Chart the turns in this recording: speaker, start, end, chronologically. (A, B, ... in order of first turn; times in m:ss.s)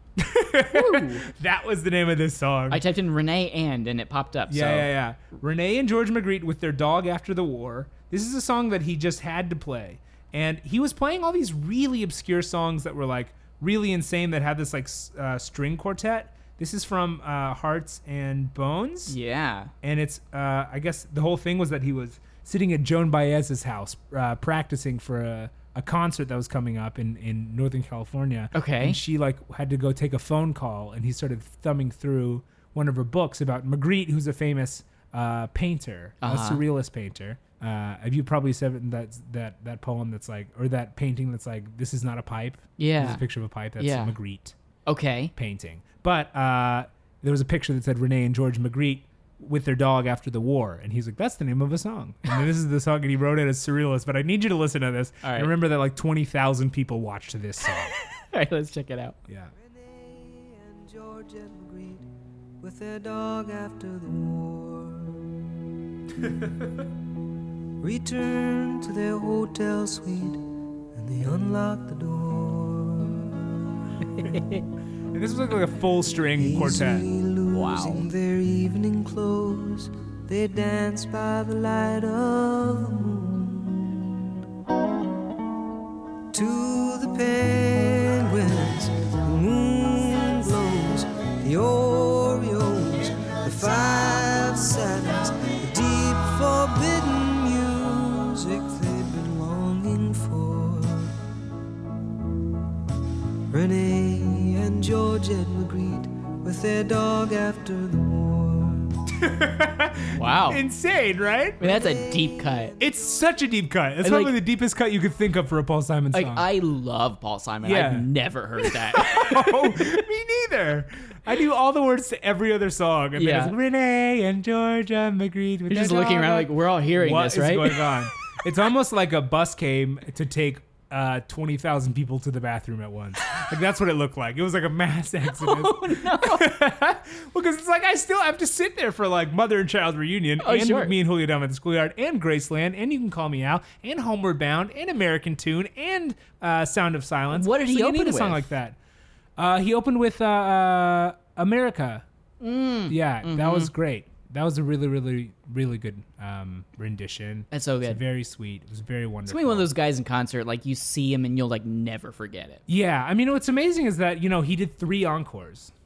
0:00.2-0:02.8 A
0:00.7-0:01.2 B
0:02.7-0:04.9 B
0:04.5-0:19.2 A
0:19.1-0:19.7 B
0:19.8-0:44.6 A
0:28.5-0:29.0 B
0:36.2-0:36.6 B
0:42.8-0:43.2 B
0:43.8-0:44.1 B
0:44.9-0:45.3 B
0:45.4-0:57.9 A
0:55.2-0:55.5 B
0:58.1-0:59.2 B
0:59.6-1:02.1 C
1:02.6-1:05.4 C
1:06.3-1:06.8 A
1:07.8-1:13.7 C
1:14.2-1:14.6 B
1:15.1-1:17.1 A
1:16.4-1:24.2 C
1:17.5-1:18.1 B
1:26.3-1:41.1 C
1:43.5-1:48.9 C
1:49.1-1:51.6 A
1:50.2-1:50.6 B
1:51.6-1:52.7 B
1:51.6-1:53.4 C
1:52.8-1:56.5 A
1:54.0-1:54.4 B
1:56.1-1:59.9 B
1:57.6-1:58.1 A
1:58.6-2:28.8 A
2:03.2-2:03.5 B
2:05.7-2:07.9 B
2:15.3-2:16.6 B
2:20.4-2:20.9 B
2:27.3-2:28.5 B
2:29.4-2:32.0 A
2:32.4-2:33.7 B
2:32.9-2:39.7 A
2:37.5-2:38.0 B
2:39.3-2:42.6 B
2:42.7-2:45.7 A